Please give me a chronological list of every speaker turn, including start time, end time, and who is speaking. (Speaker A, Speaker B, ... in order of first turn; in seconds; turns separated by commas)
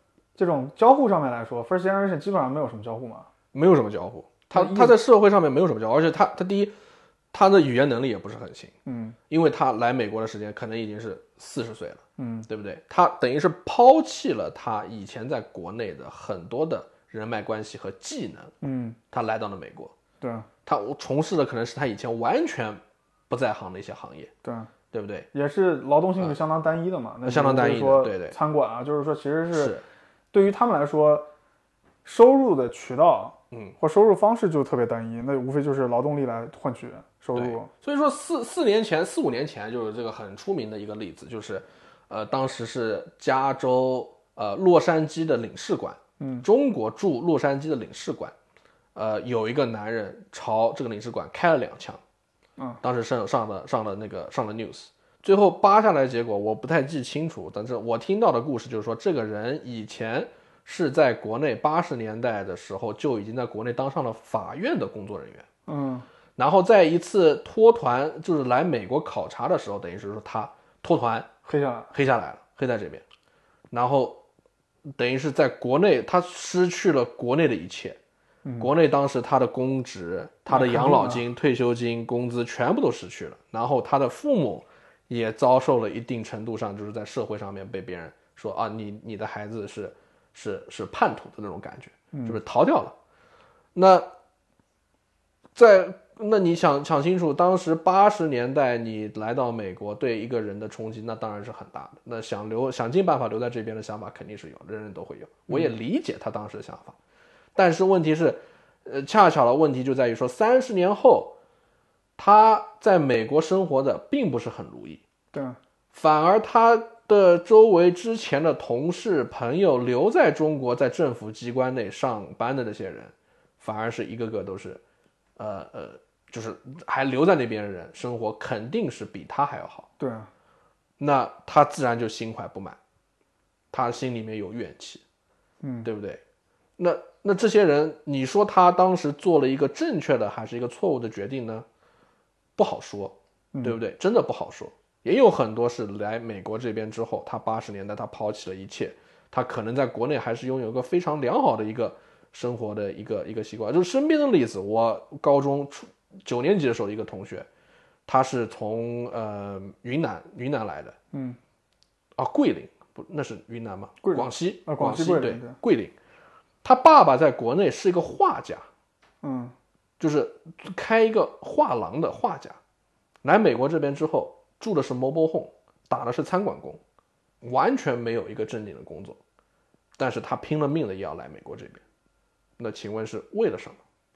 Speaker A: 0.3-3.3, Speaker B: 3.5-6.7, Speaker A: 4.5-4.9, Speaker B: 7.3-8.7, Speaker A: 8.8-9.2, Speaker B: 9.3-18.5, Speaker A: 12.2-12.5, Speaker A: 18.6-19.0, Speaker B: 19.1-19.9, Speaker A: 20.2-20.5, Speaker B: 20.6-24.3, Speaker A: 24.4-24.7, Speaker B: 24.9-25.3, Speaker A: 25.3-29.8, Speaker B: 27.2-28.4, Speaker B: 29.5-29.8, Speaker A: 30.3-31.3, Speaker A: 32.0-37.7, Speaker B: 37.3-48.3, Speaker A: 46.2-46.5, Speaker B: 48.9-52.0, Speaker B: 52.8-65.5, Speaker A: 65.7-66.0, Speaker B: 66.4-71.3, Speaker A: 71.4-71.9, Speaker B: 71.9-73.0, Speaker B: 73.7-74.2, Speaker B: 75.0-78.0, Speaker A: 78.4-78.7, Speaker B: 78.6-92.9, Speaker A: 80.5-81.2, Speaker A: 92.1-92.4, Speaker B: 93.7-94.1, Speaker B: 95.5-107.0, Speaker A: 105.5-105.7, Speaker B: 107.5-111.4, Speaker B: 112.2-115.0, Speaker A: 115.3-115.6, Speaker B: 115.9-124.8, Speaker B: 125.4-129.9, Speaker A: 130.0-130.3, Speaker B: 131.0-132.8, Speaker B: 133.7-135.0, Speaker A: 135.6-135.9, Speaker B: 135.8-136.2, Speaker B: 136.8-141.7, Speaker B: 142.6-157.5, Speaker B: 158.1-160.9, Speaker A: 161.1-161.4, Speaker B: 162.2-165.9, Speaker A: 164.0-165.6, Speaker B: 166.6-168.7, Speaker A: 169.2-169.5, Speaker B: 170.0-172.6, Speaker B: 173.2-176.8, Speaker B: 177.4-179.2, Speaker B: 180.0-181.8, Speaker B: 182.6-183.8